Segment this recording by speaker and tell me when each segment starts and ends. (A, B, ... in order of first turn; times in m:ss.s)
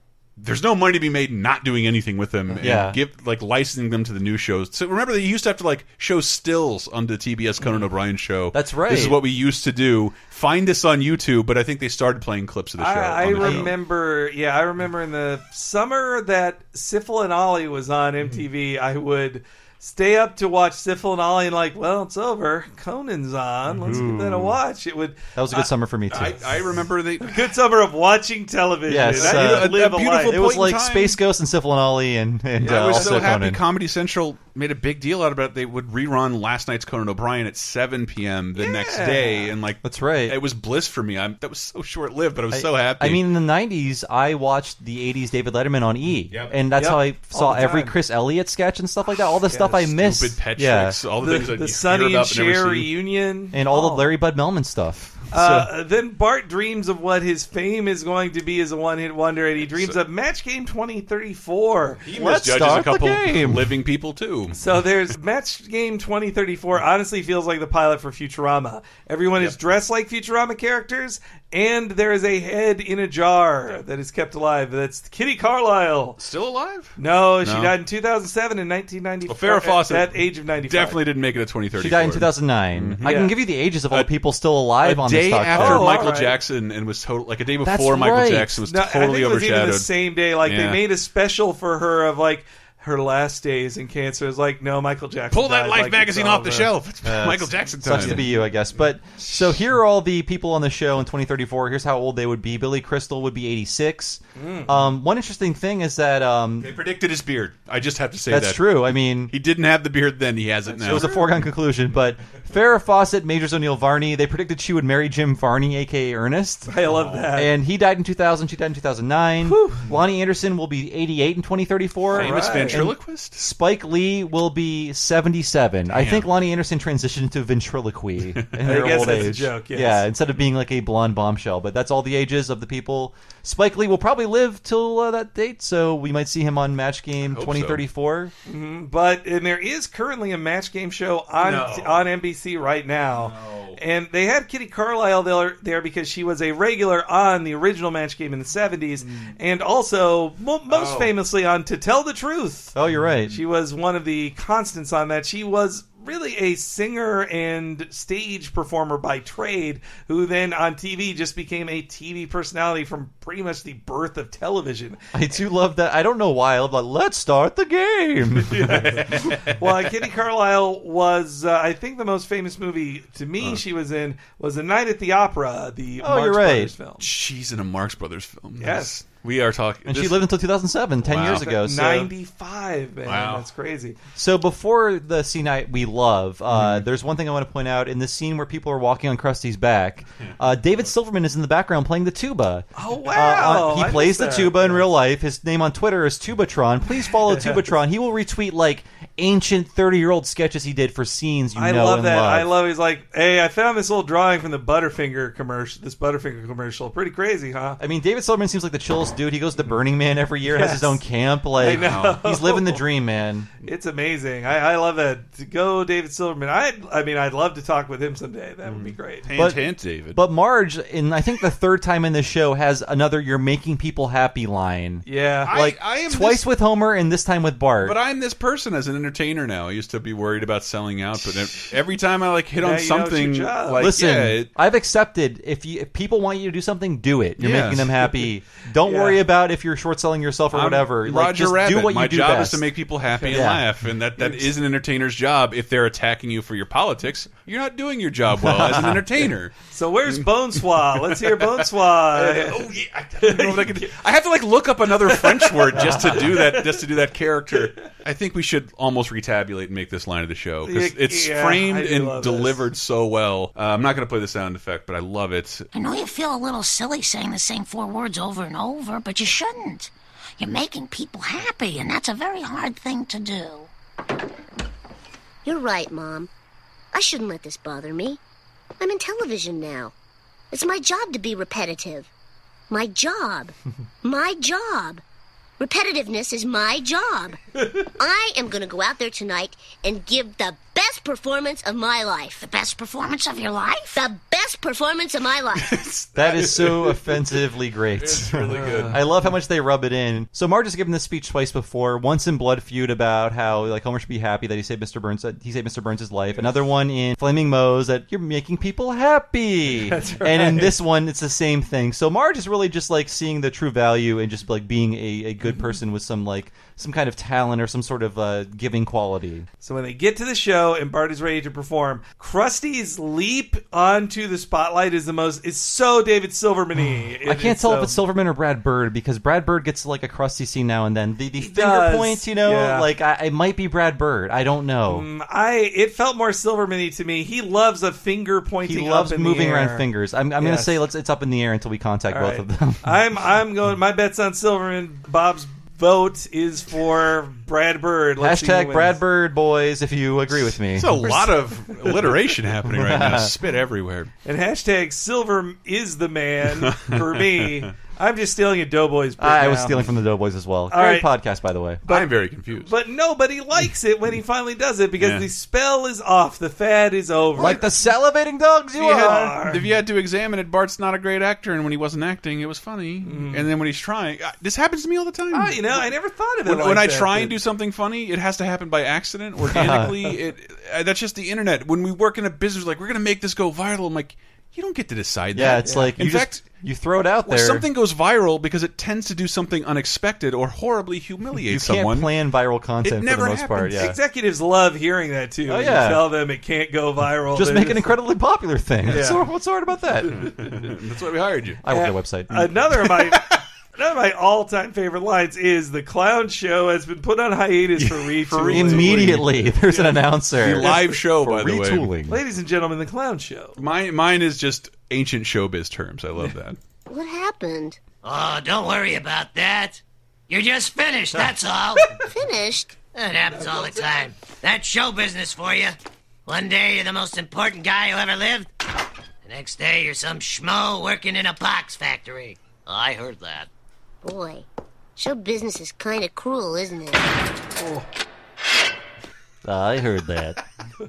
0:00.4-0:13.8 A
0:02.6-0:03.0 B
0:08.5-0:09.2 B
0:12.8-0:25.7 C
0:13.4-0:13.7 B
0:23.8-0:24.6 B
0:25.4-0:26.4 B
0:26.1-0:27.4 A
0:27.2-0:30.5 C
0:28.9-0:33.6 B
0:29.1-0:31.2 A
0:32.6-0:33.4 C
0:32.6-0:43.2 A
0:38.6-0:39.5 C
0:39.8-0:40.4 B
0:42.5-0:51.0 B
0:46.7-0:48.0 C
0:49.5-0:49.9 C
0:49.9-0:52.9 A
0:51.2-0:54.1 C
0:53.5-0:55.7 B
0:55.3-1:02.1 C
1:02.1-1:04.6 A
1:02.1-1:03.8 B
1:04.5-1:16.2 C
1:16.2-1:17.8 A
1:17.0-1:21.0 C
1:19.3-1:23.3 A
1:21.8-1:26.1 B
1:23.0-1:23.3 C
1:24.8-1:29.9 A
1:25.5-1:26.4 C
1:27.6-1:28.6 B
1:28.7-1:36.7 C
1:30.4-1:30.8 A
1:35.3-1:38.5 A
1:37.0-1:46.8 B
1:44.4-1:44.7 C
1:46.6-1:48.7 A
1:48.3-1:49.3 B
1:49.3-1:51.1 A
1:50.7-1:51.3 C
1:50.8-1:56.7 B
1:56.7-1:57.5 C
1:56.9-1:57.2 A
1:57.3-2:18.3 B
1:59.4-1:59.8 C
2:02.1-2:03.4 A
2:02.1-2:02.8 C
2:05.9-2:06.3 A
2:08.4-2:08.9 A
2:08.6-2:10.0 C
2:17.3-2:17.8 A
2:18.5-2:32.7 C
2:21.4-2:22.1 A
2:23.2-2:23.8 A
2:30.7-2:31.1 A
2:32.8-2:33.4 B
2:33.3-2:45.0 C
2:45.1-2:48.9 B
2:48.5-2:57.1 C
2:56.0-2:56.7 B
2:57.0-3:00.2 A
2:58.6-2:58.9 C
2:59.9-3:02.1 B
3:01.0-3:01.4 A
3:01.2-3:04.0 C
3:03.0-3:03.5 A
3:04.2-3:22.5 B
3:06.5-3:06.8 A
3:12.8-3:14.8 C
3:17.3-3:17.6 C
3:21.6-3:27.8 C
3:27.8-3:33.5 B
3:30.4-3:31.0 C
3:31.6-3:32.8 C
3:31.6-3:32.2 A
3:33.6-3:39.3 C
3:38.7-3:40.2 A
3:39.4-3:48.0 B
3:45.1-3:45.5 C
3:45.5-3:46.5 A
3:47.8-3:54.5 A
3:52.6-3:53.9 C
3:53.8-4:02.7 B
3:57.4-3:58.1 A
3:58.8-3:59.2 C
4:00.5-4:09.5 A
4:03.1-4:03.4 C
4:03.3-4:03.7 B
4:04.2-4:04.6 C
4:08.4-4:09.0 B
4:09.7-4:14.0 C
4:10.8-4:25.7 A
4:15.1-4:16.8 C
4:15.9-4:16.2 B
4:20.6-4:22.6 C
4:25.7-4:33.7 D
4:35.4-4:36.3 E
4:36.9-4:38.2 E
4:38.8-4:39.9 E
4:40.5-4:42.1 E
4:42.7-4:45.0 E
4:45.6-4:47.4 E
4:48.0-4:52.4 E
4:52.4-4:54.0 D
4:53.9-4:55.8 E
4:55.7-4:57.0 A
4:56.2-5:19.5 B
4:58.0-4:59.0 A
4:58.5-4:59.0 C
5:09.8-5:10.8 C
5:19.6-5:28.0 C
5:27.2-5:35.1 B
5:31.4-5:32.9 C
5:34.9-5:39.9 C
5:38.6-5:43.0 B
5:40.4-5:40.8 C
5:42.1-5:49.0 C
5:48.2-5:51.2 B
5:50.7-5:54.1 A
5:51.0-5:52.1 C
5:52.6-5:53.3 B
5:54.2-5:59.9 C
5:56.5-5:57.7 A
5:59.2-6:01.8 B
6:00.7-6:01.1 C
6:01.9-6:07.6 C
6:01.9-6:02.7 A
6:05.0-6:05.3 A
6:07.4-6:09.4 B
6:07.4-6:07.7 A
6:08.8-6:15.9 A
6:08.9-6:09.7 C
6:13.0-6:13.5 C
6:15.3-6:17.4 C
6:16.4-6:26.5 A
6:19.4-6:20.0 B
6:25.3-6:27.7 B
6:25.6-6:26.0 C
6:27.3-6:32.1 A
6:31.5-6:34.0 B
6:32.8-6:34.0 A
6:33.7-6:38.0 C
6:35.5-6:36.1 B
6:37.4-6:40.4 B
6:38.9-6:39.2 C
6:40.1-6:41.6 A
6:41.6-6:42.5 B
6:41.7-6:51.0 C
6:43.1-6:43.4 A
6:47.8-6:49.4 A
6:48.4-6:52.2 B
6:50.4-6:51.9 A
6:52.1-6:53.6 C
6:53.6-6:56.6 A
6:56.9-6:57.8 E
6:58.0-7:02.0 F
7:02.1-7:02.8 E
7:02.8-7:08.5 F
7:03.3-7:04.1 C
7:09.2-7:13.5 F
7:14.0-7:17.1 E
7:17.6-7:17.9 C
7:19.4-7:20.4 B